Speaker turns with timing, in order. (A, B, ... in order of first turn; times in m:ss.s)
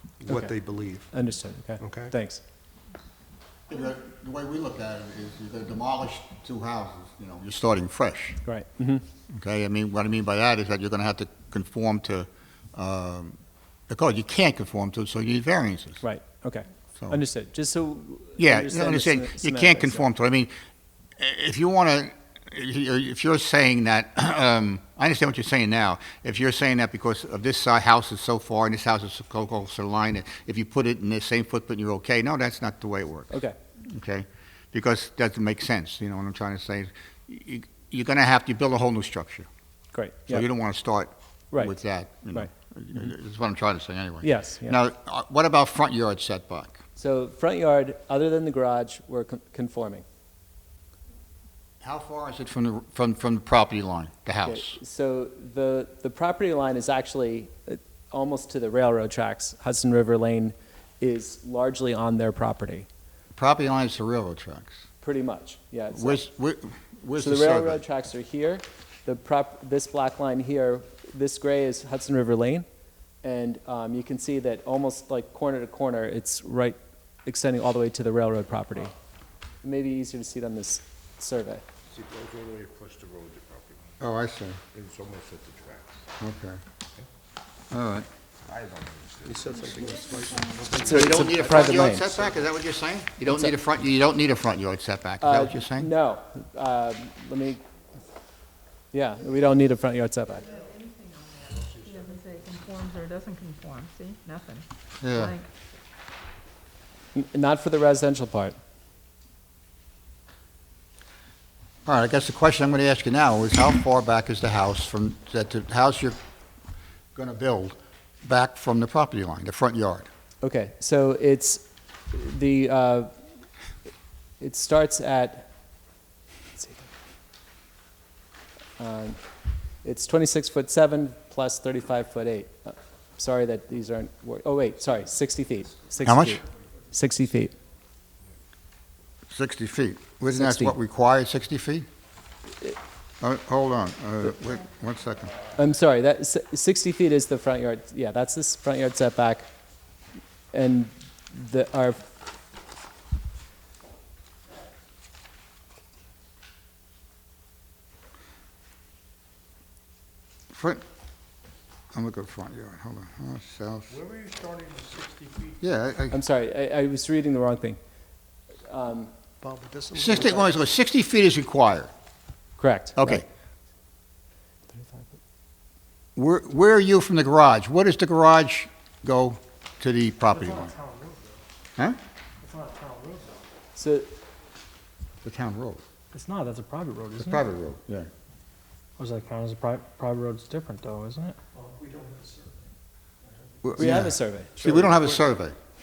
0:00.2-0:01.1 A
0:00.3-0:00.6 B
0:01.1-0:02.4 B
0:01.8-0:02.1 A
0:03.7-0:08.4 C
0:08.4-0:09.0 B
0:09.3-0:13.4 C
0:13.9-0:16.0 C
0:16.0-0:20.1 B
0:18.4-0:20.5 C
0:21.2-0:39.5 C
0:33.3-0:33.6 B
0:39.9-0:40.5 B
0:40.3-0:46.8 C
0:41.5-0:41.8 B
0:44.2-0:44.8 B
0:47.0-0:50.0 B
0:51.8-0:54.8 C
0:54.4-1:02.9 B
1:03.4-1:04.8 C
1:05.0-1:06.2 B
1:05.9-1:07.8 C
1:07.2-1:12.7 B
1:13.2-1:18.9 B
1:19.6-1:21.6 B
1:21.9-1:23.8 D
1:24.0-1:24.6 C
1:24.7-1:26.1 D
1:26.2-1:26.6 C
1:27.7-1:28.1 C
1:28.5-1:30.0 D
1:29.2-1:30.9 A
1:30.2-1:30.6 E
1:30.7-1:32.4 B
1:30.9-1:35.9 C
1:33.3-1:33.6 B
1:35.2-1:37.6 B
1:38.9-1:40.5 B
1:40.4-1:45.5 E
1:41.5-1:42.8 D
1:45.0-1:45.4 C
1:47.2-1:48.6 B
1:51.8-1:56.2 C
1:57.1-2:00.1 C
2:00.4-2:03.1 B
2:04.4-2:05.5 B
2:06.6-2:06.9 B
2:08.8-2:09.2 B
2:09.8-2:17.5 B
2:16.0-2:16.4 C
2:19.3-2:21.9 C
2:20.3-2:20.8 B
2:23.2-2:25.4 C
2:25.6-2:29.5 B
2:30.5-2:32.1 B
2:40.5-2:40.8 C
2:41.9-2:44.0 C
2:43.9-2:45.6 D
2:45.6-2:46.2 C
2:46.1-2:47.8 B
2:48.6-2:49.1 B
2:49.4-2:50.6 A
2:50.0-2:51.9 C
2:52.6-2:53.2 B
2:53.0-2:53.2 C
2:54.8-2:55.0 B
2:56.2-3:00.7 C
3:00.3-3:01.4 F
3:02.4-3:03.4 F
3:03.8-3:04.1 B
3:05.2-3:05.8 C
3:06.1-3:07.5 F
3:07.2-3:08.1 C
3:09.0-3:11.4 F
3:11.6-3:12.7 A
3:13.6-3:15.6 C
3:13.8-3:15.0 B